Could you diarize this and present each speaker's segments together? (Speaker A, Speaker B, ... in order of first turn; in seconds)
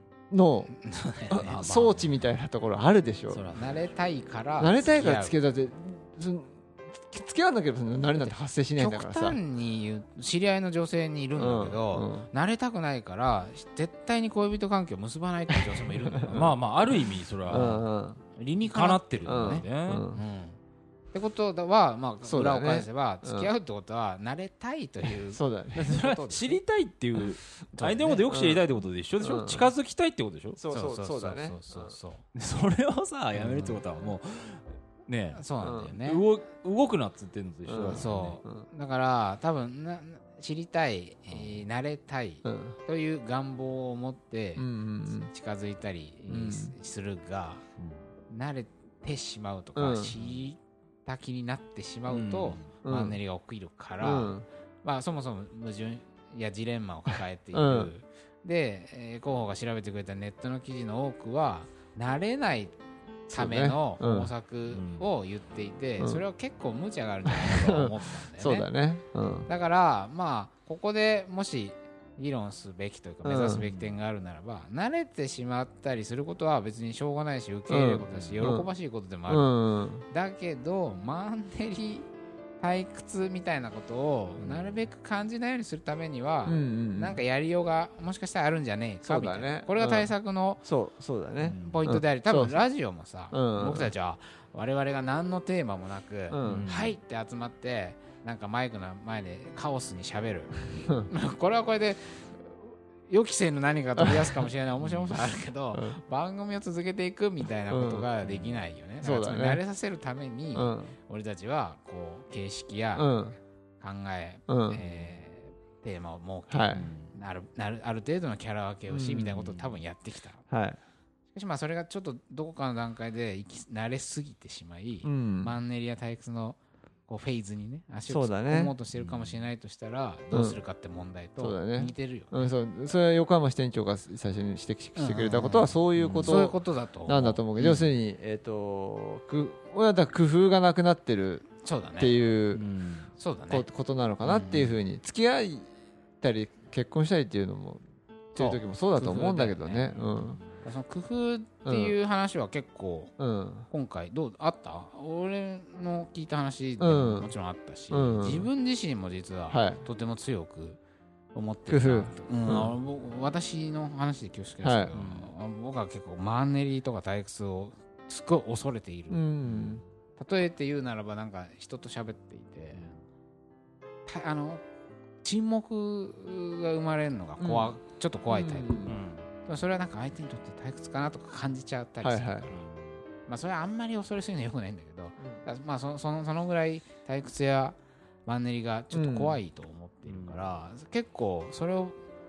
Speaker A: 0.3-0.7, 1.3-3.4, 4.6-9.4, 11.4-12.3, 15.9-16.5, 17.5-18.2, 19.2-20.2, 22.2-23.5, 25.3-26.6, 28.3-28.6, 29.2-29.7, 30.6-31.9, 35.6-35.9, 37.7-38.6, 42.4-42.8, 44.6-45.3, 46.3-46.7, 49.8-50.1, 52.8-53.1, 54.0-54.4, 57.5-57.9, 63.3-64.3, 67.3-69.5, 73.2-73.6, 77.7-78.7, 79.3-80.0, 86.5-87.2, 89.0-90.1, 90.6-92.6, 93.3-93.9, 96.3-96.7, 104.0-104.2, 107.7-108.0, 109.0-109.6, 110.5-110.9, 113.0-113.4, 114.5-114.8, 116.5-116.9, 118.9-119.3, 120.5-120.8, 125.0-125.5, 128.1-128.7, 131.4-142.6, 143.5-145.7, 146.2-147.8, 148.3-150.4, 151.6-151.9, 153.2-153.7, 156.8-157.3, 157.9-158.5, 159.5-159.8, 161.7-162.7, 164.6-164.9, 169.1-169.8, 177.4-177.8, 178.3-179.0, 182.0-182.5, 188.9-189.4
Speaker B: 0.7-2.0, 3.5-5.3, 8.1-16.4, 18.4-20.6, 21.1-25.4, 25.9-26.4, 27.7-28.2, 30.7-32.2, 33.4-33.8, 35.4-36.2, 37.9-44.6, 45.3-47.6, 48.3-62.7, 63.3-68.7, 69.5-79.5, 80.1-82.1, 82.6-90.6, 91.6-113.1, 113.8-120.4, 121.3-132.5, 134.9-137.9, 141.6-142.1, 143.2-143.7, 144.2-144.7, 148.3-149.9, 150.6-153.1, 153.7-160.8, 161.3-169.2, 170.2-172.9, 174.1-174.6, 175.2-178.8, 179.4-182.5, 183.3-192.0
Speaker C: 3.3-3.9, 16.2-17.8, 18.6-20.1, 25.7-30.6, 32.3-38.4, 41.3-41.6, 47.8-48.0, 50.1-50.4, 52.1-52.6, 64.7-65.0, 73.6-73.9, 78.1-78.5, 84.4-84.7, 91.4-91.9, 96.4-97.0, 104.8-105.2, 108.2-108.6, 116.7-117.1, 119.3-119.8, 128.9-129.4, 136.0-136.4, 142.5-143.1, 149.9-150.5, 164.9-165.3, 169.4-169.8, 178.9-179.3, 182.5-183.0, 190.1-190.5